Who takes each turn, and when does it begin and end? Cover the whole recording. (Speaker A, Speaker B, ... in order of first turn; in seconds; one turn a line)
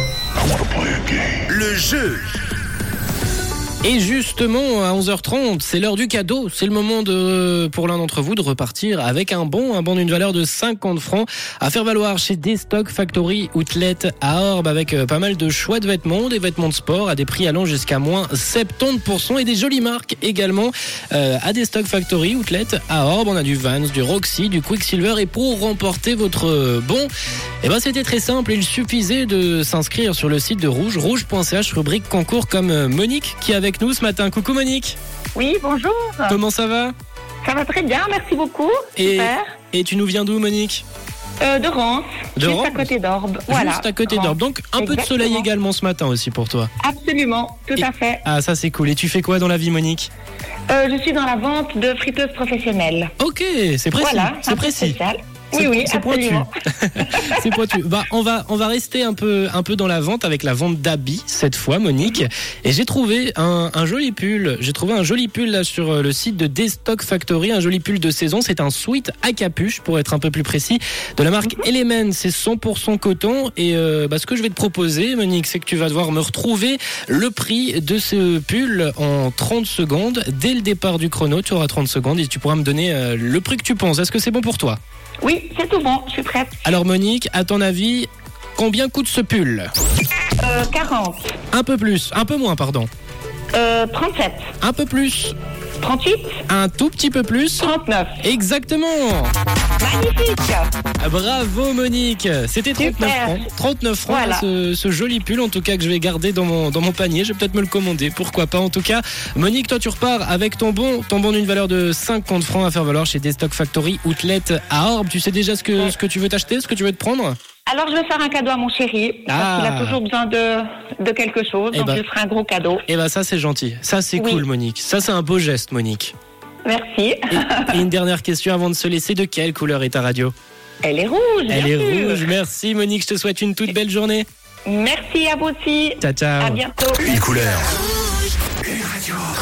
Speaker A: 0.8-2.2
Speaker B: 3.8-27.1
Speaker B: 27.6-35.0
Speaker C: 35.3-36.4
Speaker B: 36.3-36.9
Speaker C: 37.4-39.6
Speaker B: 39.0-40.8
Speaker C: 41.4-45.5
Speaker B: 42.4-42.9
Speaker B: 43.5-46.7
Speaker C: 46.8-48.2
Speaker B: 47.8-50.1
Speaker C: 50.7-53.1
Speaker B: 53.2-55.0
Speaker C: 54.0-57.7
Speaker B: 55.5-84.8
Speaker C: 85.2-86.6
Speaker B: 86.6-89.7
Speaker C: 90.4-91.3
Speaker B: 91.5-92.9
Speaker C: 93.5-94.5
Speaker B: 94.6-95.3
Speaker C: 95.8-96.4
Speaker B: 96.5-99.3
Speaker C: 97.6-98.2
Speaker C: 99.8-100.7
Speaker B: 101.0-117.3
Speaker C: 102.8-103.5
Speaker C: 104.0-104.5
Speaker C: 117.7-122.8
Speaker B: 119.3-120.0
Speaker B: 121.7-122.0
Speaker B: 122.9-126.1
Speaker C: 124.2-124.5
Speaker C: 126.6-127.8
Speaker B: 127.3-130.3
Speaker C: 130.8-132.3
Speaker B: 131.5-134.2
Speaker C: 134.7-137.2
Speaker B: 136.0-136.6
Speaker A: 137.1-137.8